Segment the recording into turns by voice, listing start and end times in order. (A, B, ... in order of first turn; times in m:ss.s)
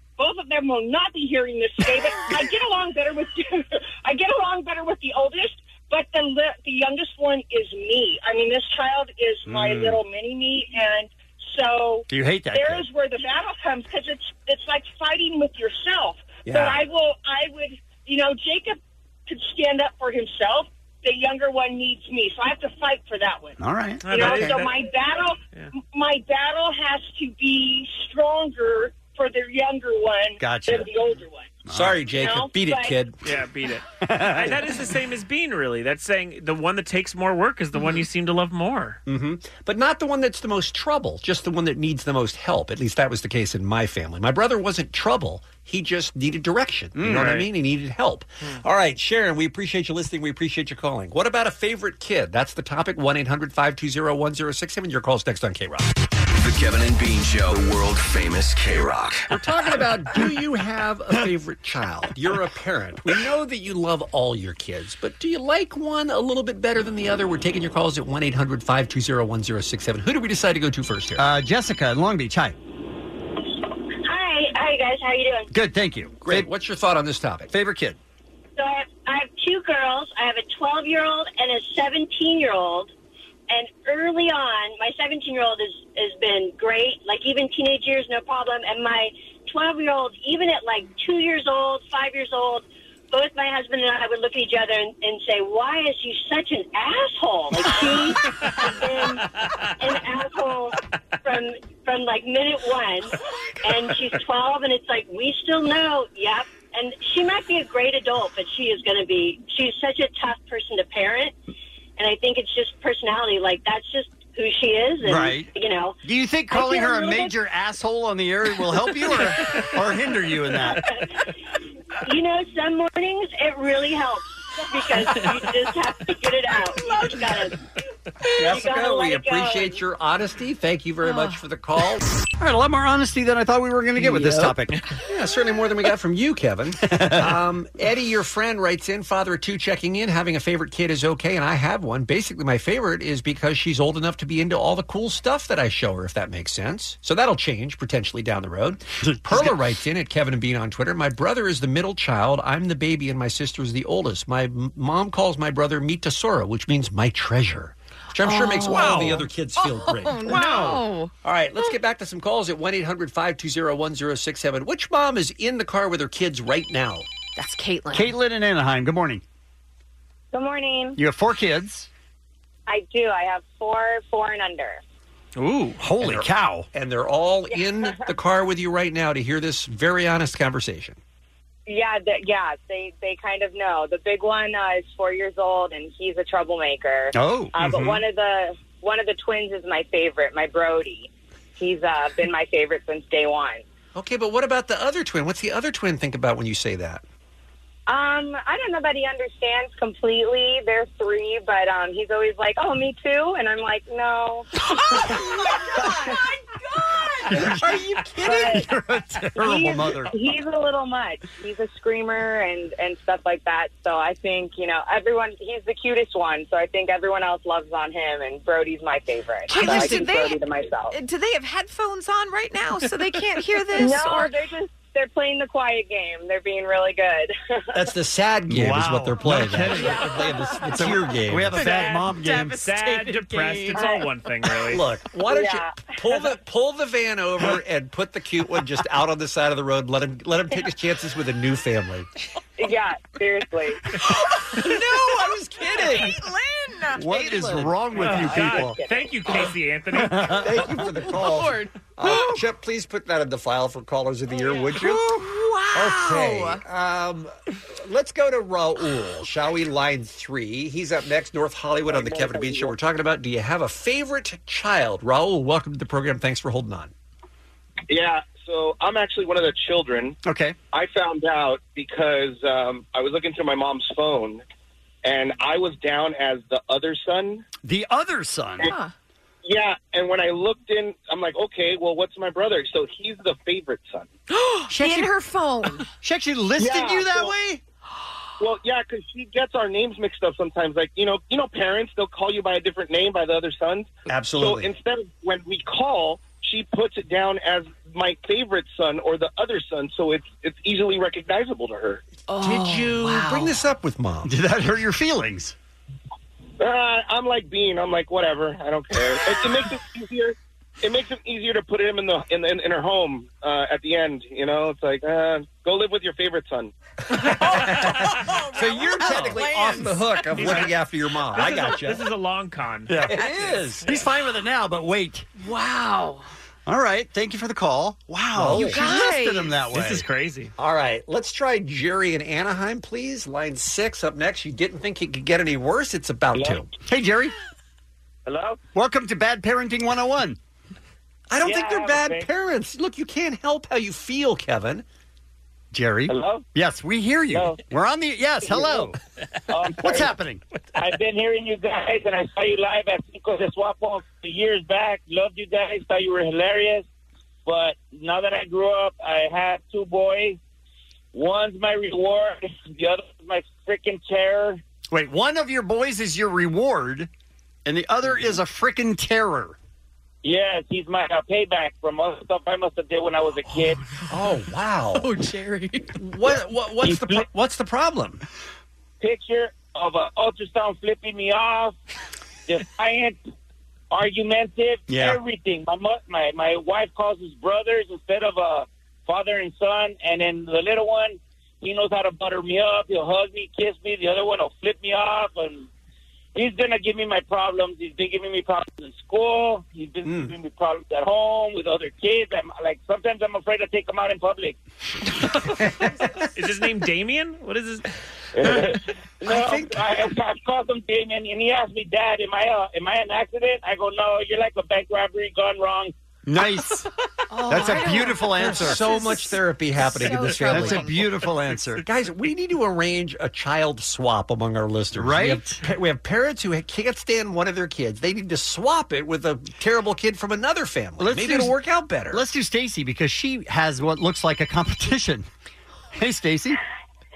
0:00.2-0:25.4 A
0:09.5-0:10.0 B
0:12.1-0:12.8 B
0:16.4-0:16.8 C
0:23.6-0:24.6 B
0:24.0-0:24.8 D
0:25.9-0:31.6 A
0:30.4-0:30.9 B
0:31.6-0:32.0 B
0:31.7-0:33.2 C
0:32.1-0:33.0 A
0:33.2-0:39.0 D
0:34.0-0:34.7 B
0:39.0-0:55.9 C
0:47.0-0:47.3 B
0:47.0-0:47.5 D
0:56.4-0:59.3 E
0:59.3-1:11.2 C
1:11.2-1:12.5 B
1:15.5-1:16.5 B
1:16.2-1:17.5 C
1:17.5-1:18.0 B
1:18.6-1:22.9 F
1:23.5-1:38.1 F
1:40.1-1:40.5 F
1:41.3-1:43.0 F
1:43.7-1:51.3 F
1:52.0-1:55.9 F
1:55.0-1:55.5 B
1:56.0-2:00.8 B
1:56.5-1:57.3 F
2:02.1-2:04.2 F
2:04.7-2:07.4 F
2:08.4-2:12.0 C
2:08.6-2:08.9 F
2:12.4-2:14.8 B
2:15.0-2:47.0 C
2:16.9-2:17.4 B
2:29.0-2:29.6 B
2:38.2-2:41.1 G
2:38.7-2:39.2 B
2:47.4-2:48.1 G
2:47.9-2:49.2 B
2:50.3-2:51.0 H
2:51.0-2:51.9 B
2:52.7-2:54.8 H
2:55.4-2:55.8 D
2:55.8-2:56.7 B
2:56.0-3:01.0 C
2:57.5-2:58.0 H
3:01.7-3:13.6 H
3:07.1-3:07.5 B
3:07.6-3:08.0 C
3:13.9-3:17.0 C
3:17.9-3:26.2 H
3:27.2-3:30.1 B
3:27.7-3:28.4 C
3:28.2-3:28.7 H
3:29.4-3:41.0 H
3:39.5-3:44.4 G
3:39.5-3:40.1 C
3:43.7-3:47.3 H
3:47.7-3:51.8 C
3:48.5-3:53.0 B
3:51.6-3:54.8 D
3:53.7-3:54.0 H
3:54.7-4:02.1 C
3:55.3-3:55.8 H
4:02.6-4:03.8 H
4:04.6-4:06.2 C
4:04.6-4:07.7 G
4:06.9-4:08.8 B
4:08.0-4:10.6 D
4:08.1-4:09.1 H
4:09.9-4:10.6 B
4:10.4-4:26.9 C
4:14.8-4:16.6 G
4:27.9-4:30.2 I
4:30.2-4:30.6 B
4:30.7-4:34.4 I
4:35.0-4:37.4 I
4:37.6-4:38.7 B
4:38.6-4:38.9 G
4:39.4-4:44.1 I
4:44.3-4:45.8 G
4:44.7-4:45.1 B
4:46.0-4:47.6 B
4:46.6-4:47.3 I
4:48.4-5:02.0 I
4:54.1-4:54.7 C
5:02.3-5:03.5 G
5:02.4-5:04.3 C
5:04.2-5:05.5 B
5:06.6-5:16.7 I
5:17.1-5:22.0 C
5:18.6-5:20.0 G
5:20.4-5:20.7 D
5:21.3-5:23.5 D
5:22.9-5:23.2 B
5:23.1-5:23.9 C
5:23.8-5:25.2 B
5:25.4-5:26.2 G
5:26.6-5:30.0 B
5:28.3-5:28.8 C
5:28.5-5:29.5 G
5:29.7-5:30.5 D
5:30.6-5:36.7 C
5:36.9-5:37.3 B
5:38.2-5:38.6 J
5:38.7-5:40.4 B
5:41.3-5:44.8 C
5:41.4-5:42.2 J
5:45.7-5:49.0 B
5:46.1-5:46.4 J
5:47.3-5:47.6 J
5:48.5-5:48.8 J
5:49.5-5:50.1 J
5:49.8-5:50.4 B
5:50.8-5:56.8 J
5:57.4-6:00.4 J
6:01.1-6:04.6 J
6:04.9-6:07.1 B
6:07.6-6:09.6 B
6:10.2-6:13.8 J
6:14.1-6:15.2 C
6:15.9-6:18.2 C
6:16.8-6:17.2 J
6:19.0-6:21.7 J
6:22.5-6:23.2 J
6:23.9-6:35.7 J
6:24.9-6:25.2 B
6:36.3-6:44.6 J
6:40.0-6:40.3 C
6:46.3-6:47.9 D
6:48.4-6:55.9 J
6:49.2-6:49.9 C
6:56.2-6:56.8 B
6:57.3-7:01.1 G
6:57.4-6:58.8 B
6:57.6-7:12.2 C
7:00.2-7:01.8 B
7:04.9-7:05.6 B
7:11.0-7:11.6 B
7:12.1-7:15.3 B
7:15.9-7:16.6 B